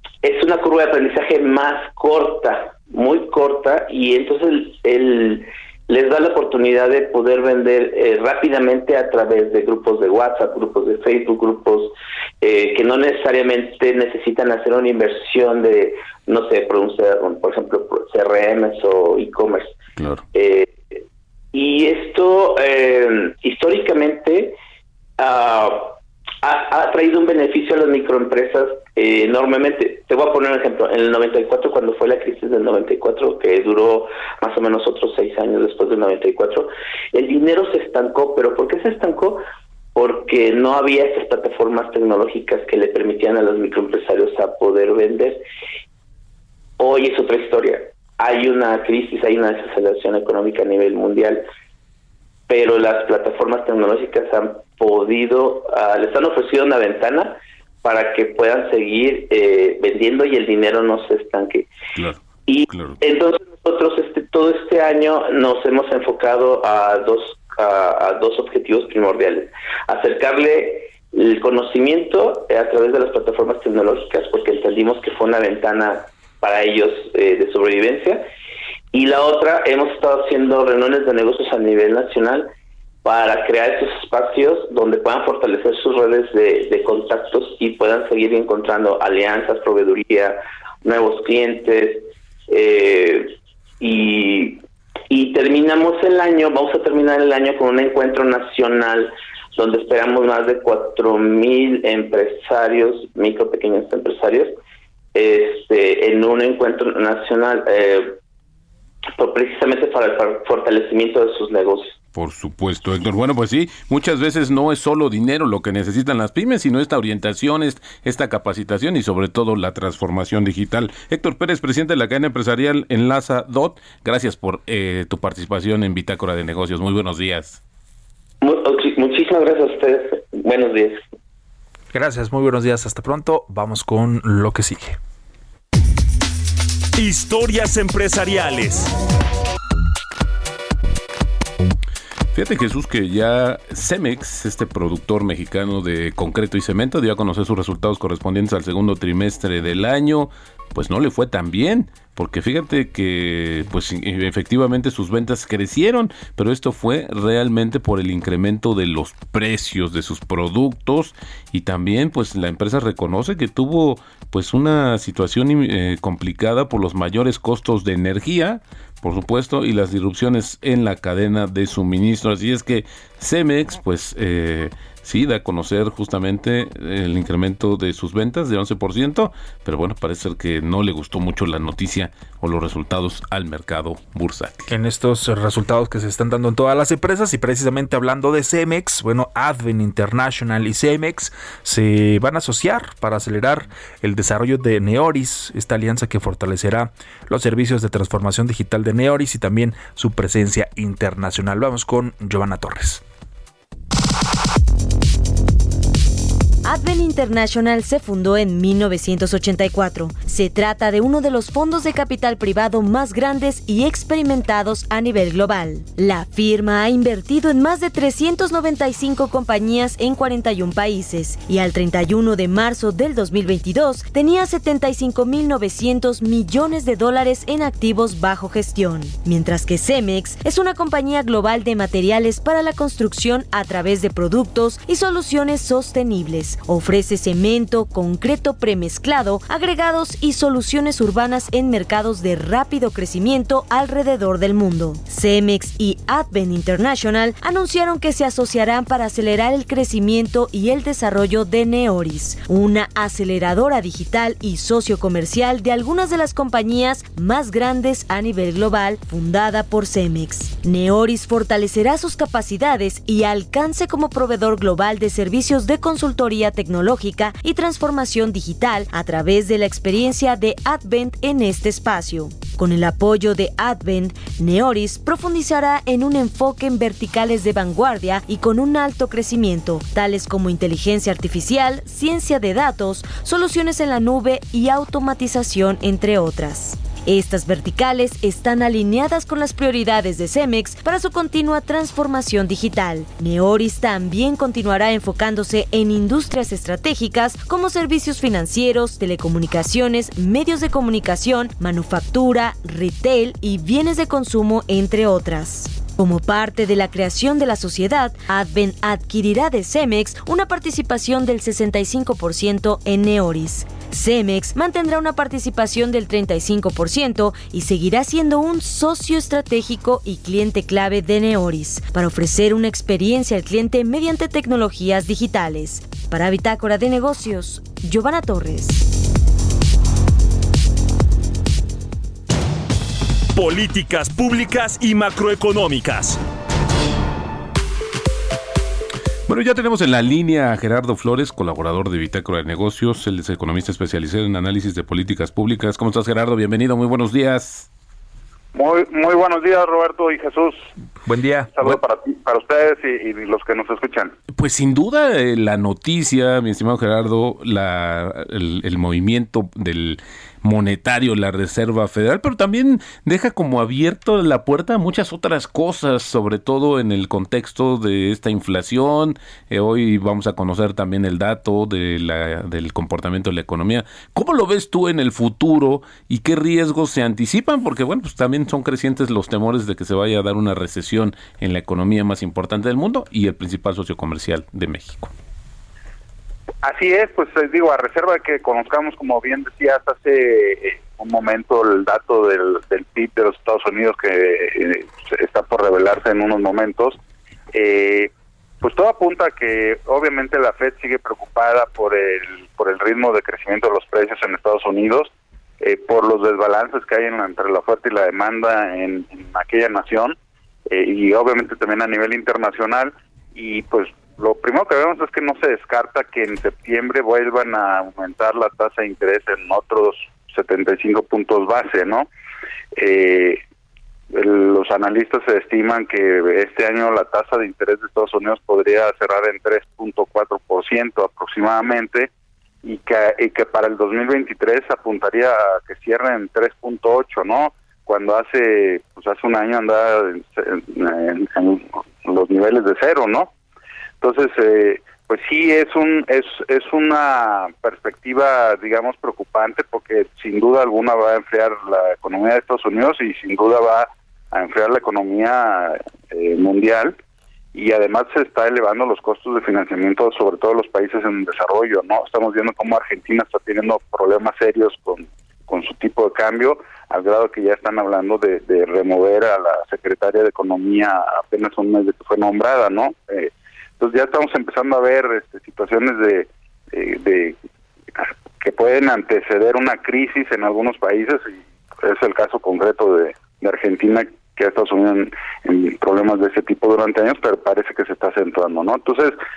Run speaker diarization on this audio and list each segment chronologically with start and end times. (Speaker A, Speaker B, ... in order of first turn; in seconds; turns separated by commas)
Speaker A: 0.2-19.8, Speaker B: 20.0-20.2, Speaker A: 20.3-21.0, Speaker A: 21.5-24.6, Speaker A: 25.2-45.4, Speaker A: 46.8-51.5, Speaker A: 52.5-61.7, Speaker B: 61.9-63.0, Speaker A: 62.5-78.2, Speaker A: 78.9-82.5, Speaker A: 83.0-104.6, Speaker A: 105.1-108.2, Speaker A: 109.2-112.0, Speaker B: 112.1-127.6, Speaker A: 128.4-131.0, Speaker C: 131.9-135.0, Speaker D: 136.9-138.9, Speaker B: 142.3-184.7, Speaker C: 184.7-203.0, Speaker E: 206.7-328.9, Speaker D: 333.3-336.2, Speaker B: 339.3-347.7, Speaker F: 348.5-350.6, Speaker C: 351.0-351.8, Speaker F: 351.5-354.1, Speaker B: 354.3-385.1, Speaker F: 386.6-397.0, Speaker F: 397.5-398.1, Speaker F: 398.6-410.1, Speaker F: 410.7-422.1, Speaker F: 422.8-423.4, Speaker F: 424.1-432.1, Speaker F: 432.6-443.3, Speaker F: 444.0-457.0, Speaker F: 457.5-477.4, Speaker F: 478.4-489.2